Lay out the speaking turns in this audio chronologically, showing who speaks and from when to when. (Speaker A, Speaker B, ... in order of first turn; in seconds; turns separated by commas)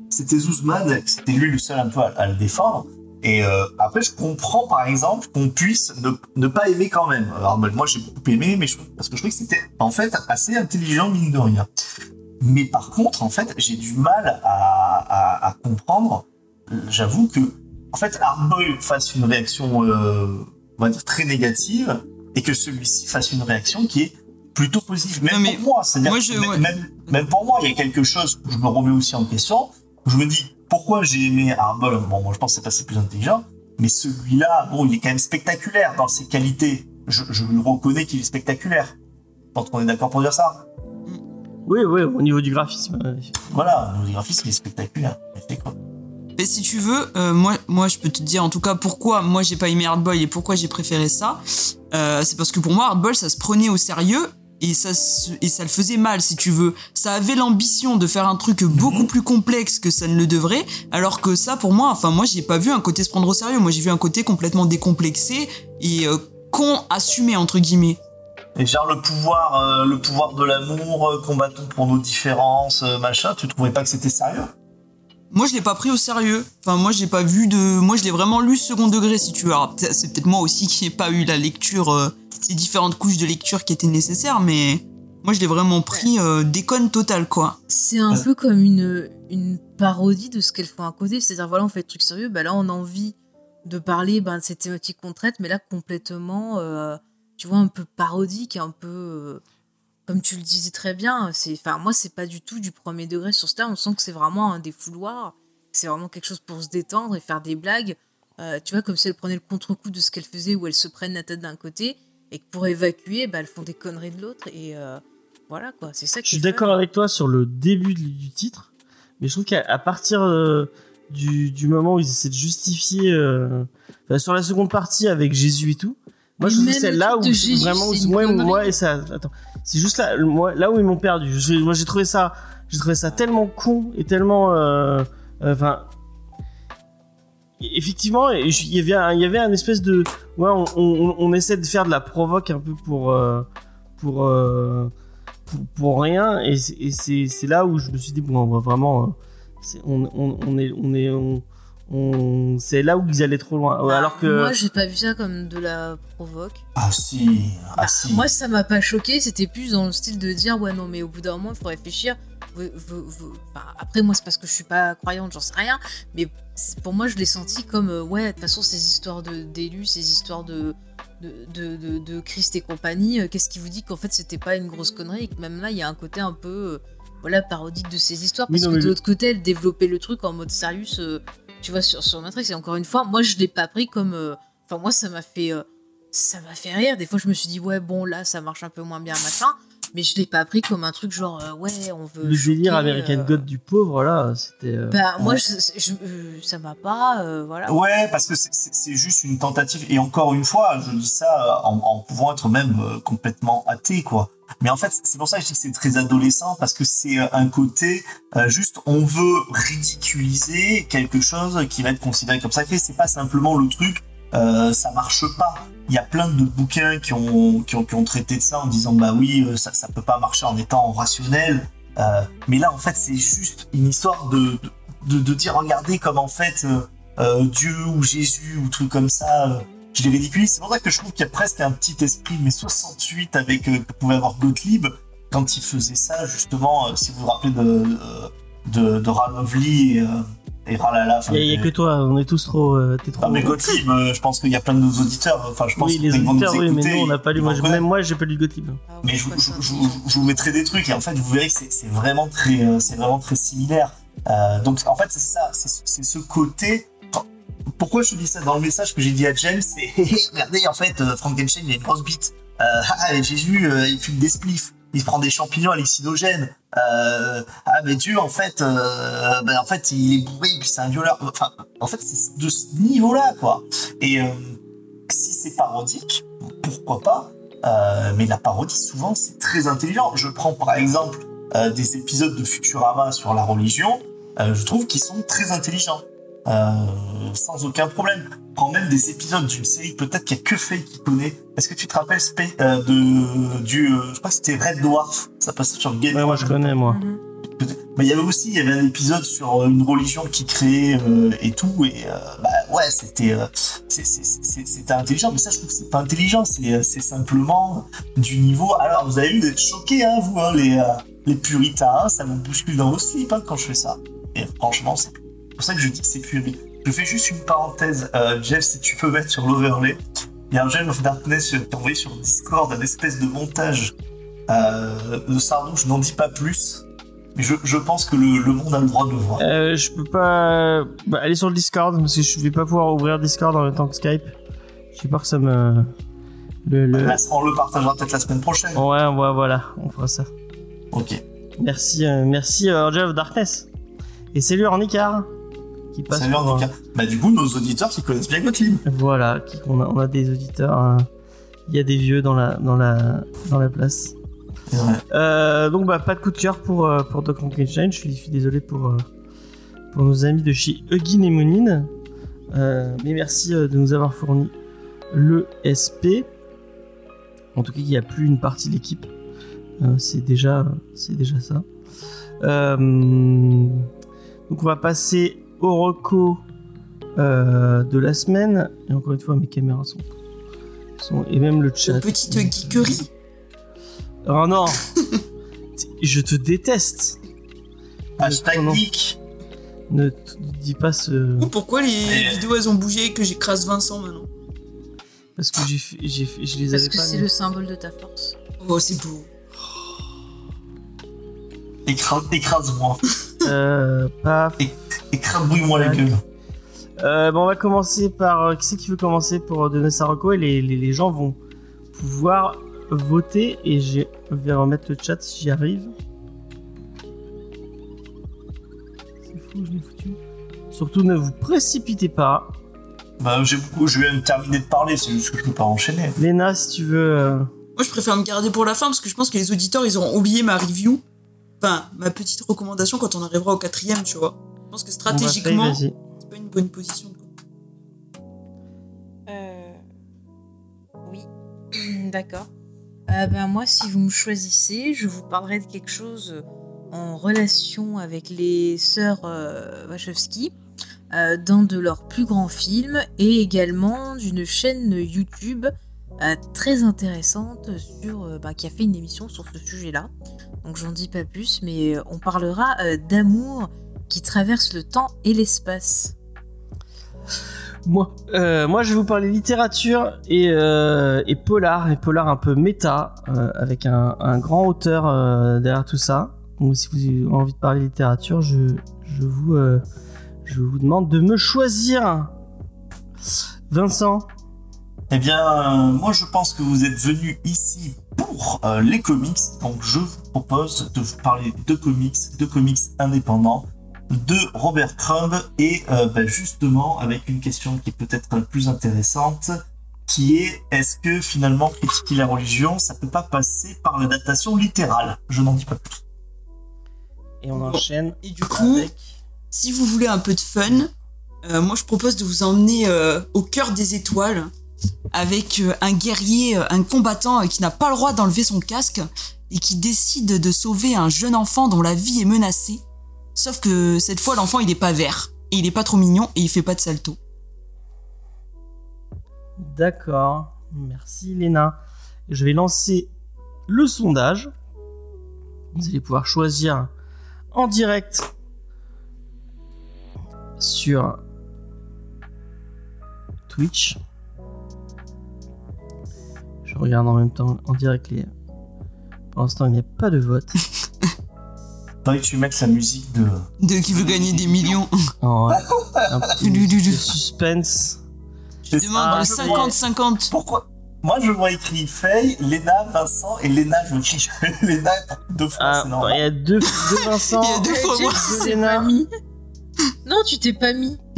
Speaker A: 0.1-11.7, Speaker A: 12.4-39.0, Speaker B: 25.3-27.0, Speaker A: 39.5-40.7, Speaker C: 41.7-43.4, Speaker A: 43.5-45.8, Speaker B: 46.4-68.0, Speaker A: 58.7-59.1, Speaker A: 68.6-74.5, Speaker B: 75.3-87.6, Speaker D: 87.7-99.4, Speaker D: 100.1-116.8, Speaker C: 116.3-118.7, Speaker C: 119.2-135.9, Speaker D: 126.4-128.8, Speaker C: 137.6-143.5, Speaker C: 144.0-144.9, Speaker C: 145.5-154.6, Speaker D: 153.8-156.6, Speaker A: 156.8-158.3, Speaker D: 157.8-193.5, Speaker C: 178.5-179.0, Speaker C: 192.2-195.0, Speaker D: 194.9-197.8, Speaker A: 197.7-241.7, Speaker C: 241.3-243.6, Speaker A: 243.2-247.8, Speaker C: 245.8-248.8, Speaker D: 248.9-250.3, Speaker A: 249.0-257.3, Speaker A: 257.8-296.7, Speaker C: 296.1-297.0, Speaker D: 296.9-297.2, Speaker A: 297.6-323.9, Speaker A: 324.5-329.4, Speaker C: 329.4-334.3, Speaker C: 334.9-335.9, Speaker C: 336.7-337.2, Speaker A: 336.9-338.8, Speaker C: 338.8-340.3, Speaker A: 340.9-341.2, Speaker C: 341.6-343.7, Speaker C: 344.3-345.3, Speaker C: 345.9-346.7, Speaker A: 346.1-348.8, Speaker C: 348.9-351.1, Speaker C: 351.7-354.1, Speaker A: 354.7-355.0, Speaker C: 355.1-359.1, Speaker C: 359.9-361.9, Speaker C: 362.5-364.5, Speaker C: 365.1-366.3, Speaker C: 367.6-369.1, Speaker C: 369.8-371.7, Speaker C: 372.4-373.9, Speaker C: 374.5-376.4, Speaker C: 377.2-380.1, Speaker C: 381.0-383.0, Speaker B: 381.9-383.1, Speaker C: 384.2-384.9, Speaker C: 385.8-387.2, Speaker A: 388.2-389.2, Speaker C: 388.2-388.8, Speaker C: 389.9-391.5, Speaker B: 391.4-394.3, Speaker A: 392.0-392.5, Speaker C: 395.4-397.3, Speaker D: 396.7-398.4, Speaker B: 398.6-399.3, Speaker A: 401.9-403.0, Speaker C: 403.4-404.7, Speaker A: 404.6-406.2, Speaker C: 405.5-406.1, Speaker C: 407.0-411.4, Speaker C: 411.9-415.9, Speaker C: 419.3-420.2, Speaker C: 420.7-422.6, Speaker A: 423.2-426.2, Speaker C: 426.2-427.5, Speaker B: 427.8-431.0, Speaker B: 431.6-437.3, Speaker C: 435.1-436.0, Speaker D: 439.3-439.8, Speaker D: 441.0-442.5, Speaker D: 443.1-450.5, Speaker D: 451.1-460.1, Speaker D: 460.6-466.1, Speaker C: 467.9-479.8, Speaker C: 480.4-482.3, Speaker C: 483.7-484.3, Speaker A: 485.1-499.6, Speaker A: 500.1-506.0, Speaker C: 507.4-509.0, Speaker B: 507.6-508.9, Speaker B: 509.5-510.9, Speaker B: 511.4-514.5, Speaker B: 515.1-522.8, Speaker B: 523.4-527.2, Speaker C: 529.6-531.8, Speaker C: 532.3-533.1, Speaker C: 533.7-534.5, Speaker C: 535.7-536.9, Speaker C: 537.5-538.3, Speaker C: 540.6-541.2, Speaker C: 543.5-544.0, Speaker C: 546.6-548.3, Speaker C: 549.3-550.5, Speaker A: 552.0-554.8, Speaker B: 553.6-555.0, Speaker C: 555.2-558.0, Speaker A: 555.5-556.2, Speaker B: 556.4-557.2, Speaker A: 558.7-559.8, Speaker B: 558.7-560.3, Speaker C: 559.0-559.8, Speaker A: 560.3-566.3, Speaker C: 565.6-568.9, Speaker B: 567.1-568.6, Speaker D: 567.6-569.1, Speaker D: 570.0-571.0